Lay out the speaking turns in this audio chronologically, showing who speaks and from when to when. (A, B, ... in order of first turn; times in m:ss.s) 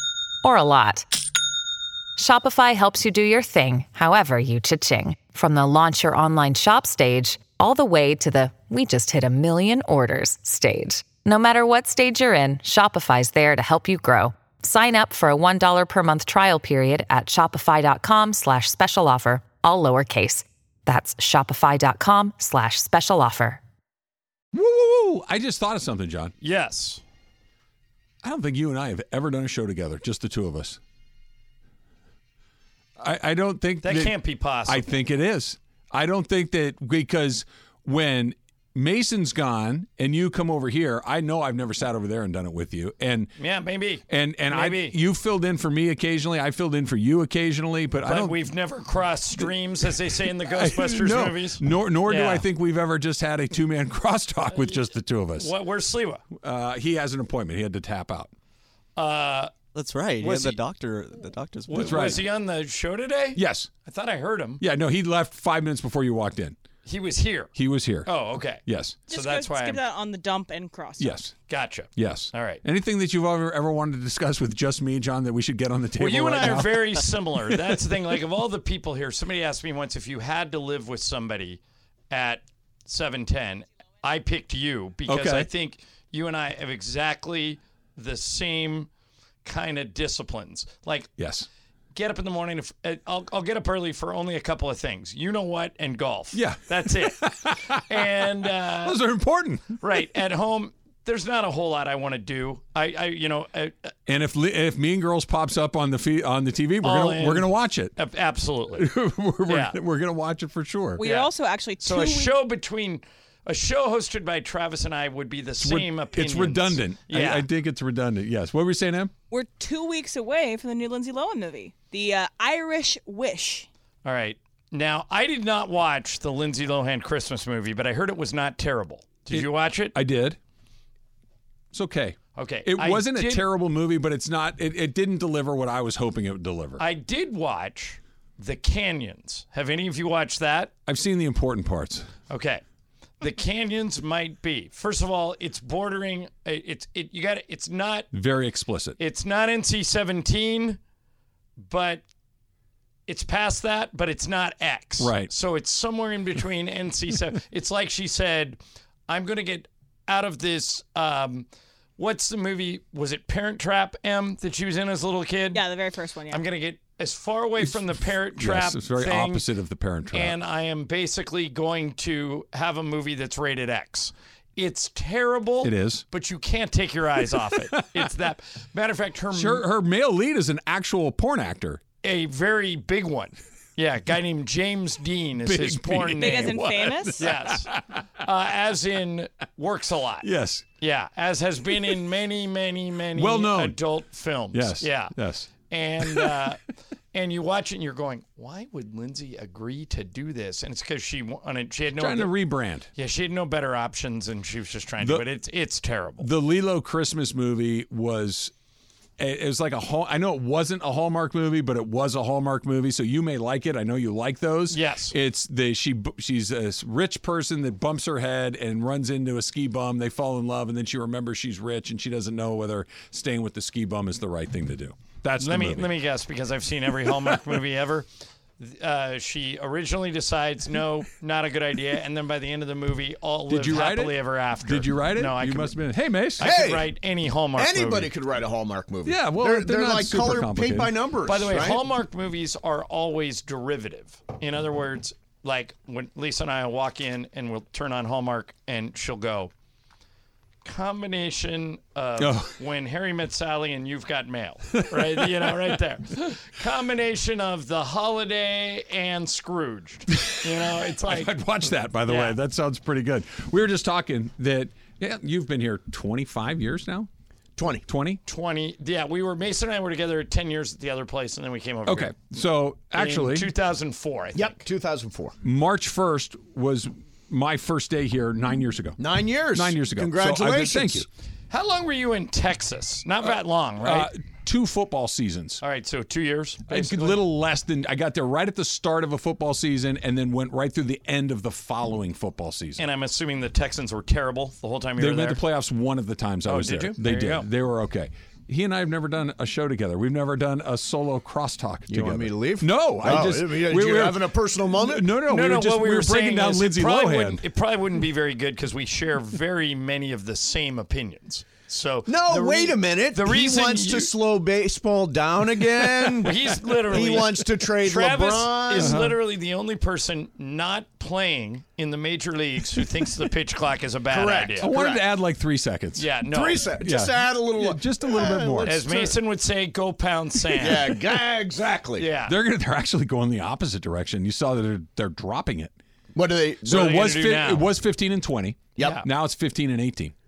0:00.4-0:01.0 A
0:02.2-0:23.6 A
0:24.5-0:26.3 B
0:26.4-0:27.0 C
0:28.2-0:30.8 B
0:33.0-0:34.1 B
0:33.8-0:34.9 C
0:34.7-0:43.3 B
0:43.4-0:45.0 C
0:44.1-0:48.4 B
0:48.0-0:52.4 C
0:49.4-0:55.5 B
0:55.4-0:56.2 C
0:56.4-0:58.3 B
0:59.0-0:59.5 C
0:59.7-1:02.0 D
1:00.2-1:00.6 C
1:01.7-1:04.6 C
1:01.7-1:02.2 B
1:03.4-1:03.7 B
1:04.6-1:06.6 B
1:06.8-1:07.5 C
1:07.6-1:08.1 B
1:08.0-1:09.8 C
1:08.6-1:09.0 B
1:09.1-1:11.2 E
1:11.0-1:11.3 B
1:11.5-1:12.6 C
1:12.0-1:18.1 B
1:16.0-1:21.6 C
1:22.1-1:28.9 C
1:25.1-1:25.5 B
1:29.4-1:31.1 C
1:31.2-1:31.5 B
1:31.9-1:37.2 C
1:36.3-1:37.8 B
1:37.7-1:39.0 C
1:38.8-1:39.8 B
1:39.8-1:43.9 C
1:44.1-1:47.9 B
1:46.8-1:48.9 C
1:48.8-1:51.0 B
1:49.5-1:49.7 C
1:51.0-1:52.3 E
1:51.0-1:57.4 C
1:55.6-1:59.1 B
1:59.3-2:03.7 E
2:04.0-2:10.0 C
2:09.3-2:10.4 B
2:11.7-2:16.8 B
2:12.4-2:13.4 C
2:16.8-2:20.7 C
2:20.9-2:22.1 B
2:22.3-2:22.6 C
2:23.2-2:28.1 C
2:28.1-2:29.0 B
2:29.0-2:30.8 C
2:31.6-2:32.0 C
2:33.1-2:45.6 C
2:35.0-2:35.3 B
2:45.5-2:46.4 E
2:46.3-2:49.5 C
2:47.6-2:50.4 B
2:50.1-2:59.6 C
2:55.6-2:56.0 B
2:59.3-3:01.8 B
3:02.0-3:06.6 C
3:05.4-3:07.8 B
3:06.2-3:07.3 E
3:07.2-3:10.3 C
3:10.2-3:10.6 B
3:10.8-3:15.1 C
3:13.2-3:13.8 B
3:14.5-3:16.5 B
3:15.7-3:16.6 C
3:17.1-3:22.3 C
3:22.0-3:22.9 B
3:23.0-3:26.3 C
3:26.2-3:28.5 B
3:29.2-3:45.9 B
3:34.7-3:35.2 C
3:45.4-3:48.1 C
3:48.6-3:55.8 C
3:53.5-3:56.5 B
3:56.4-3:56.9 F
3:56.4-3:58.1 C
3:57.6-4:01.8 F
3:59.0-4:00.9 B
4:01.3-4:09.5 C
4:10.6-4:21.3 C
4:12.2-4:12.5 B
4:14.8-4:15.5 B
4:21.0-4:27.1 B
4:22.1-4:22.4 C
4:27.6-4:27.8 F
4:27.9-4:28.2 B
4:28.2-4:32.1 C
4:31.8-4:33.5 B
4:32.9-4:34.6 C
4:34.3-4:35.4 F
4:35.4-4:39.0 B
4:39.0-4:41.1 F
4:39.5-4:41.1 B
4:41.5-4:44.1 C
4:43.2-4:45.6 B
4:45.6-4:47.2 C
4:46.7-4:52.8 B
4:52.8-4:55.4 C
4:55.0-5:07.4 B
4:56.4-4:57.5 C
5:01.9-5:05.1 F
5:05.3-5:14.1 C
5:12.1-5:16.4 F
5:16.2-5:25.0 C
5:16.9-5:19.1 F
5:18.8-5:19.1 B
5:24.1-5:24.7 F
5:24.6-5:26.1 B
5:26.0-5:26.6 C
5:26.3-5:29.1 F
5:26.8-5:28.8 B
5:28.6-5:30.9 C
5:30.5-5:32.1 F
5:32.0-5:32.3 C
5:32.3-5:35.7 B
5:36.1-5:37.1 F
5:36.6-5:40.1 B
5:36.7-5:37.6 C
5:38.8-5:39.0 C